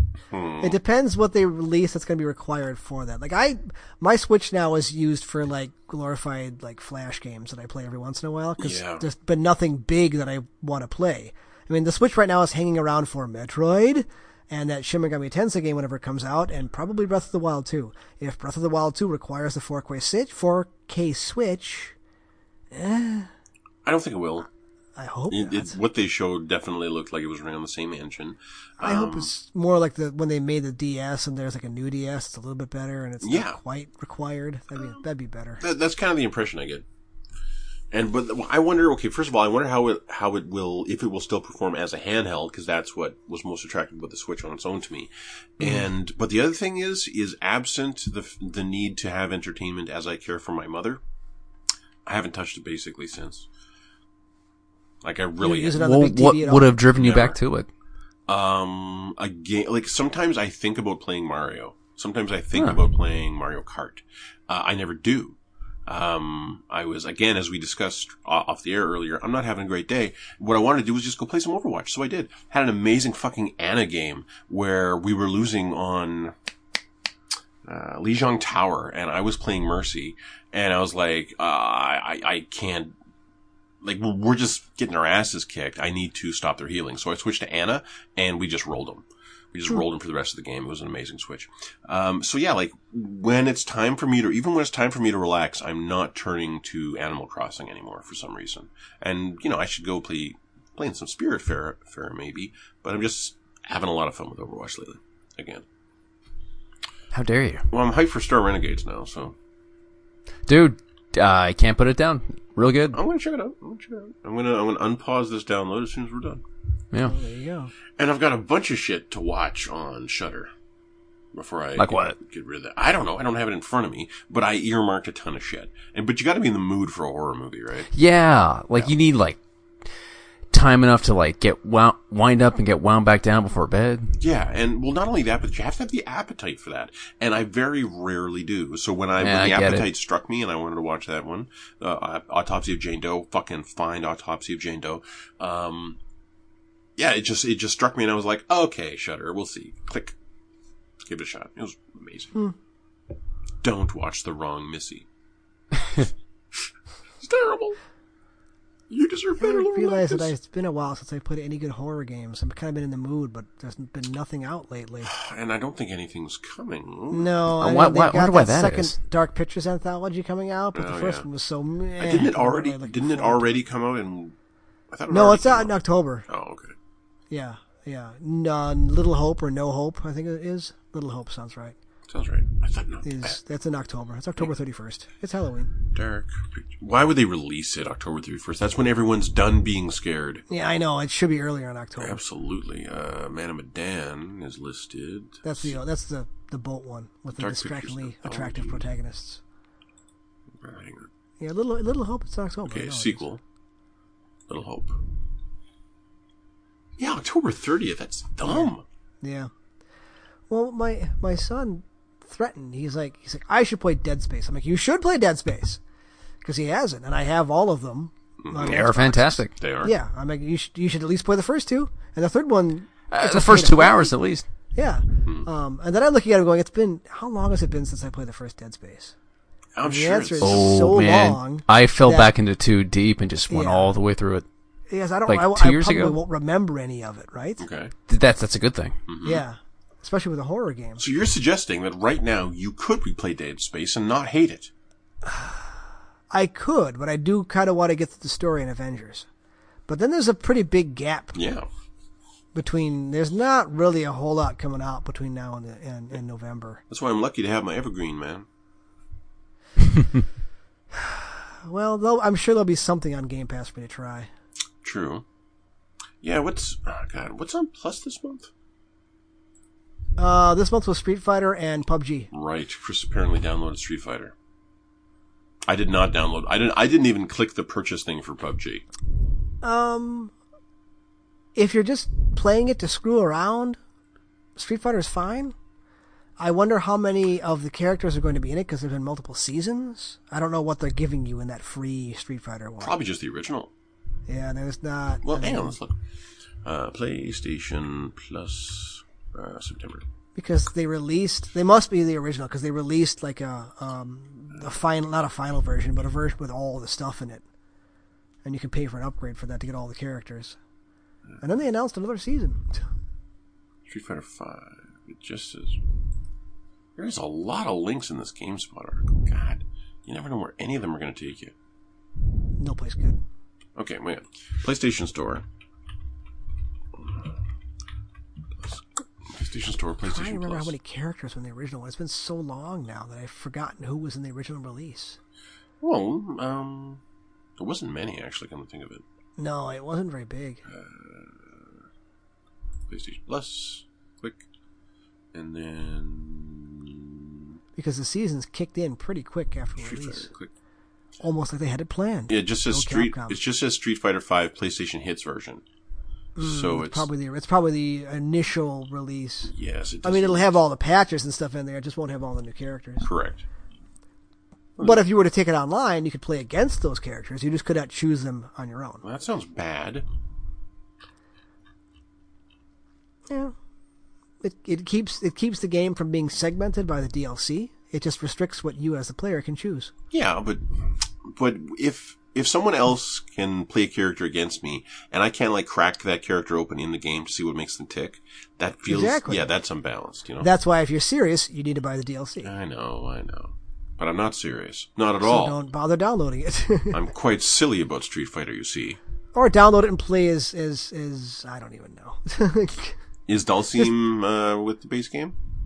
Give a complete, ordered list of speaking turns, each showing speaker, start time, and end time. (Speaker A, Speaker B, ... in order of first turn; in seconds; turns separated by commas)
Speaker A: 0.3-0.8, Speaker B: 0.6-21.9, Speaker A: 8.6-9.0, Speaker B: 22.7-23.3, Speaker A: 23.8-24.5, Speaker B: 24.9-25.8, Speaker A: 25.3-29.3, Speaker B: 28.8-35.6, Speaker A: 33.2-33.6, Speaker A: 35.6-36.8, Speaker A: 37.9-51.0, Speaker A: 52.0-53.5, Speaker A: 55.0-55.8, Speaker B: 55.4-56.7, Speaker C: 55.7-57.7, Speaker A: 56.9-57.4, Speaker A: 58.3-76.3, Speaker C: 62.5-62.8, Speaker A: 77.6-82.9, Speaker A: 83.8-105.6, Speaker C: 107.1-107.7, Speaker A: 107.7-109.3, Speaker C: 110.5-113.0, Speaker A: 112.9-116.4, Speaker B: 117.0-117.7, Speaker A: 118.0-120.5, Speaker A: 121.3-127.9, Speaker C: 121.8-122.2, Speaker C: 127.9-129.4, Speaker C: 130.5-134.1, Speaker A: 134.2-146.0, Speaker C: 139.2-139.9, Speaker A: 147.0-150.2, Speaker A: 151.0-152.3, Speaker A: 153.6-155.1, Speaker A: 157.2-157.8, Speaker A: 158.9-160.3, Speaker B: 159.4-165.1, Speaker A: 165.0-167.3, Speaker B: 167.1-173.6, Speaker C: 167.6-168.9, Speaker A: 170.7-171.3, Speaker A: 172.0-174.3, Speaker A: 174.9-175.8, Speaker B: 175.1-176.2, Speaker A: 176.3-176.7, Speaker B: 177.3-181.8, Speaker A: 182.1-183.4, Speaker B: 183.0-185.7, Speaker A: 185.9-190.4, Speaker B: 190.5-192.2, Speaker A: 192.0-195.8, Speaker B: 195.4-199.4, Speaker A: 197.3-198.8, Speaker A: 200.6-201.1, Speaker B: 201.4-203.2, Speaker A: 202.7-203.4, Speaker A: 204.5-205.0, Speaker A: 207.0-208.8, Speaker B: 208.4-208.7, Speaker B: 209.2-209.5, Speaker B: 210.5-215.8, Speaker B: 216.4-224.1, Speaker A: 218.4-218.8, Speaker C: 218.6-219.5, Speaker A: 219.6-219.9, Speaker C: 223.1-224.4, Speaker B: 224.7-229.1, Speaker A: 229.8-230.7, Speaker B: 229.8-232.3, Speaker C: 230.4-234.4, Speaker B: 233.5-233.9, Speaker B: 234.9-237.6, Speaker C: 235.3-236.2, Speaker A: 237.6-237.9, Speaker C: 238.1-239.0, Speaker A: 239.1-239.4, Speaker B: 239.2-241.0, Speaker A: 241.0-244.7, Speaker B: 245.3-245.6, Speaker B: 246.3-249.3, Speaker B: 249.9-251.4, Speaker A: 251.3-251.7, Speaker B: 252.5-256.8, Speaker A: 256.9-258.4, Speaker B: 261.0-264.3, Speaker A: 264.8-265.2, Speaker A: 266.2-268.5, Speaker B: 270.2-272.3, Speaker A: 272.3-274.3, Speaker A: 275.7-278.8, Speaker B: 279.6-280.3, Speaker B: 281.5-283.8, Speaker B: 284.6-285.5, Speaker B: 286.4-292.9, Speaker A: 292.8-293.7, Speaker B: 294.3-295.8, Speaker A: 295.2-296.0, Speaker A: 296.6-300.0, Speaker B: 300.3-307.4, Speaker B: 308.4-310.6, Speaker B: 311.4-312.6, Speaker A: 313.9-315.8, Speaker A: 316.9-321.5, Speaker B: 322.6-323.2, Speaker A: 323.8-325.4, Speaker A: 326.9-327.3, Speaker A: 328.6-330.7, Speaker B: 330.0-335.2, Speaker A: 335.8-337.0, Speaker A: 337.6-339.0, Speaker B: 339.4-340.6, Speaker A: 340.7-341.7, Speaker A: 342.9-344.4, Speaker A: 345.3-347.5, Speaker B: 347.8-350.3, Speaker A: 349.8-350.5, Speaker B: 351.2-353.4, Speaker A: 352.3-355.6, Speaker B: 356.4-359.5, Speaker A: 356.4-357.1, Speaker A: 359.5-360.6, Speaker B: 360.0-363.1, Speaker A: 363.0-363.4, Speaker A: 364.8-365.0, Speaker B: 364.8-369.0, Speaker A: 369.0-370.0, Speaker B: 373.3-373.5, Speaker B: 374.4-379.9, Speaker A: 380.1-380.6, Speaker A: 381.2-390.5, Speaker B: 388.9-389.5, Speaker B: 390.4-392.5, Speaker A: 392.4-395.6, Speaker B: 395.2-397.0, Speaker A: 396.9-399.0, Speaker B: 399.3-402.9, Speaker A: 403.3-405.3